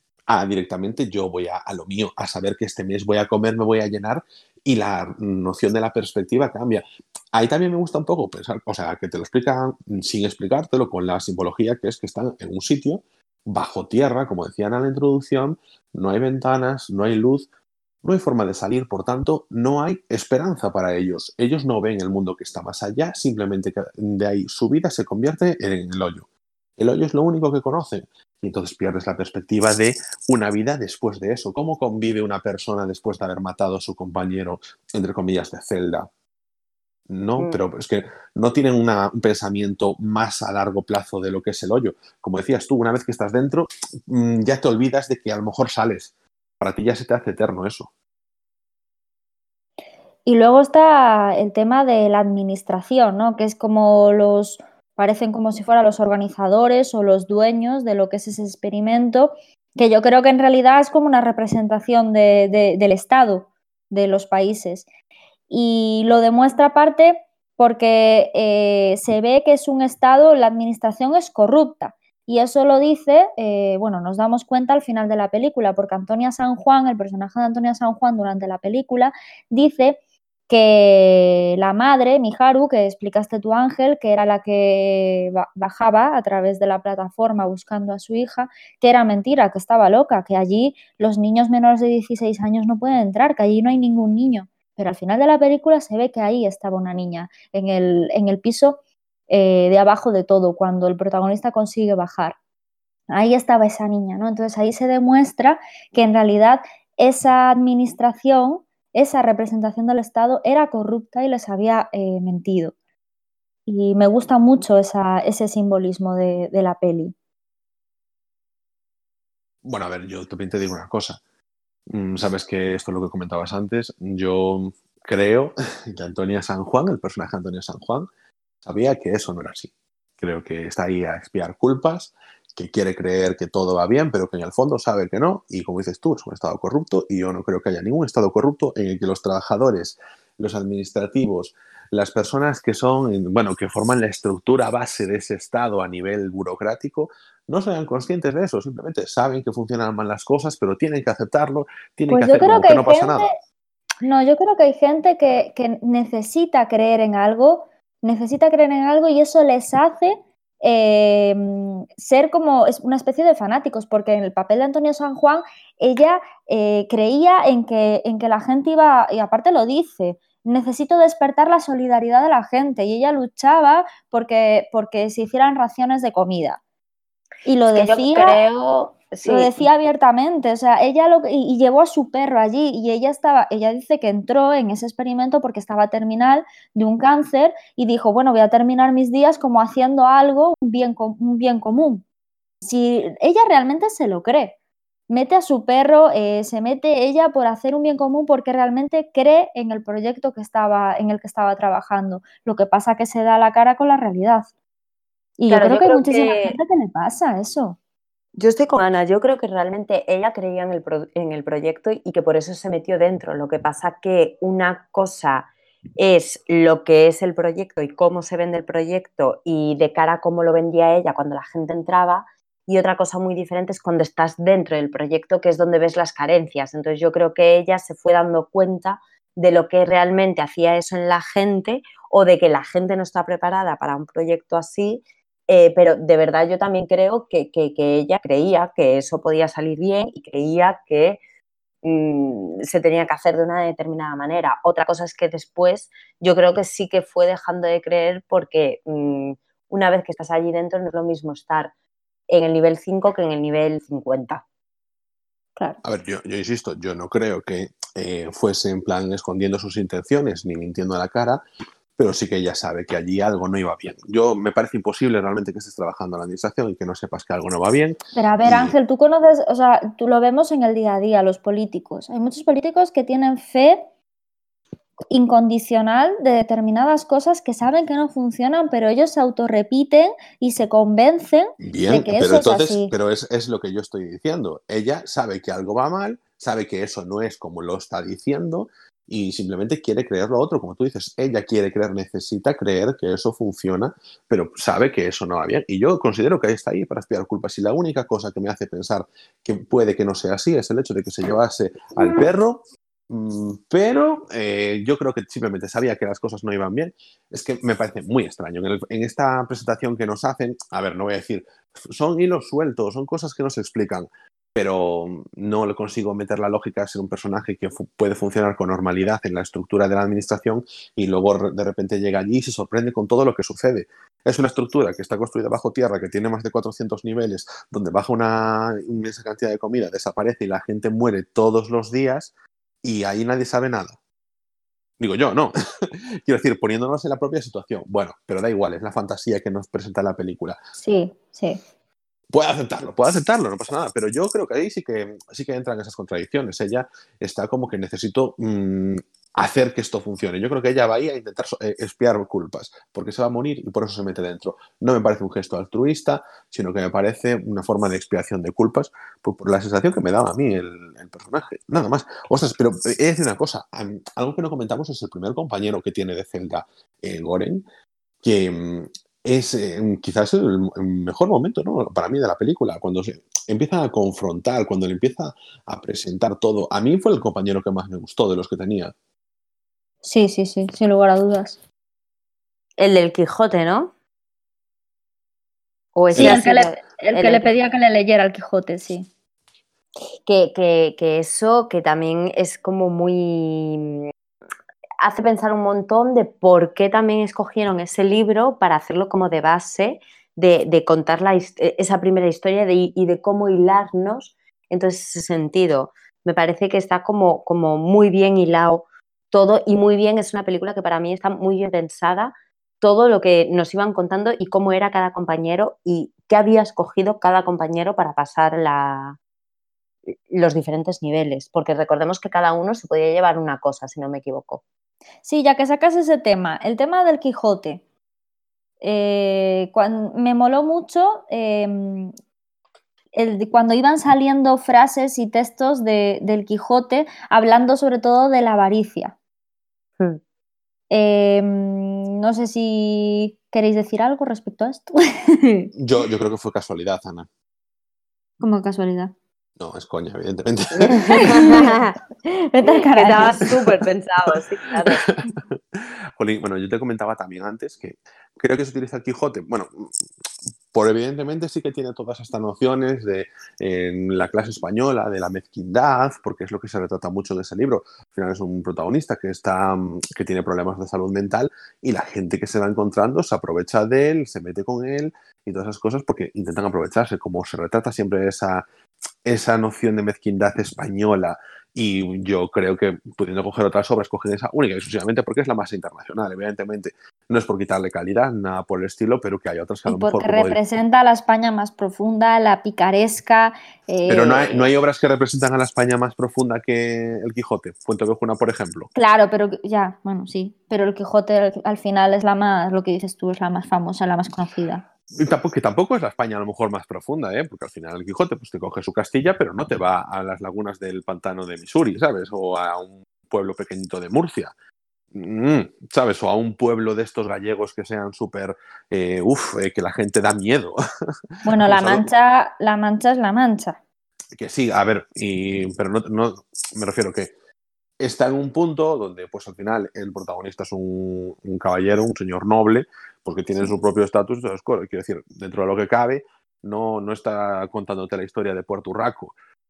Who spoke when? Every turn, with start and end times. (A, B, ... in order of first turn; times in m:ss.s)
0:00.3-0:17.4 A
0:18.0-0:26.3 A
0:26.8-0:36.1 A
0:37.1-0:47.9 A
0:50.2-1:04.9 B
1:05.5-1:38.8 B
1:39.3-1:42.4 B
1:43.1-1:52.7 B
1:53.7-1:57.1 B
1:59.6-2:01.2 A
2:01.9-2:08.1 A
2:08.6-2:33.3 A
2:32.1-2:33.3 B
2:34.0-2:56.6 B
2:57.4-2:58.4 B
2:57.7-2:59.5 C
2:59.2-3:12.0 B
3:12.6-3:14.6 B
3:15.1-3:24.5 B
3:25.4-3:27.8 B
3:25.5-3:26.6 C
3:28.4-4:01.2 C
4:01.8-4:11.7 C
4:12.3-4:14.4 C
4:15.8-4:21.4 A
4:22.0-4:28.7 A
4:28.1-4:33.8 B
4:35.1-4:42.9 B
4:41.6-5:32.3 A
5:32.8-5:34.0 A
5:35.0-5:40.6 A
5:40.8-5:41.6 B
5:42.3-6:07.6 A
6:08.2-6:18.9 A
6:20.0-6:21.6 B
6:22.8-6:23.9 C
6:26.0-6:27.5 C
6:26.1-6:29.1 B
6:30.2-6:34.1 C
6:35.0-6:59.2 C
7:00.3-7:04.6 C
7:05.2-7:07.8 B
7:08.8-7:12.1 B
7:13.1-7:19.1 B
7:20.9-7:25.7 B
7:25.8-7:27.3 A
7:28.4-7:29.1 B
7:29.6-7:31.6 A
7:30.8-7:31.9 C
7:30.9-7:33.6 B
7:32.6-7:35.2 C
7:34.9-7:39.9 A
7:40.7-7:58.6 A
7:59.2-8:10.6 A
8:09.9-8:14.7 B
8:14.1-8:18.9 A
8:18.9-8:24.8 B
8:25.1-8:34.5 A
8:35.1-8:40.8 A
8:41.4-8:43.8 B
8:41.6-8:42.1 A
8:44.3-8:47.3 A
8:48.0-8:59.3 A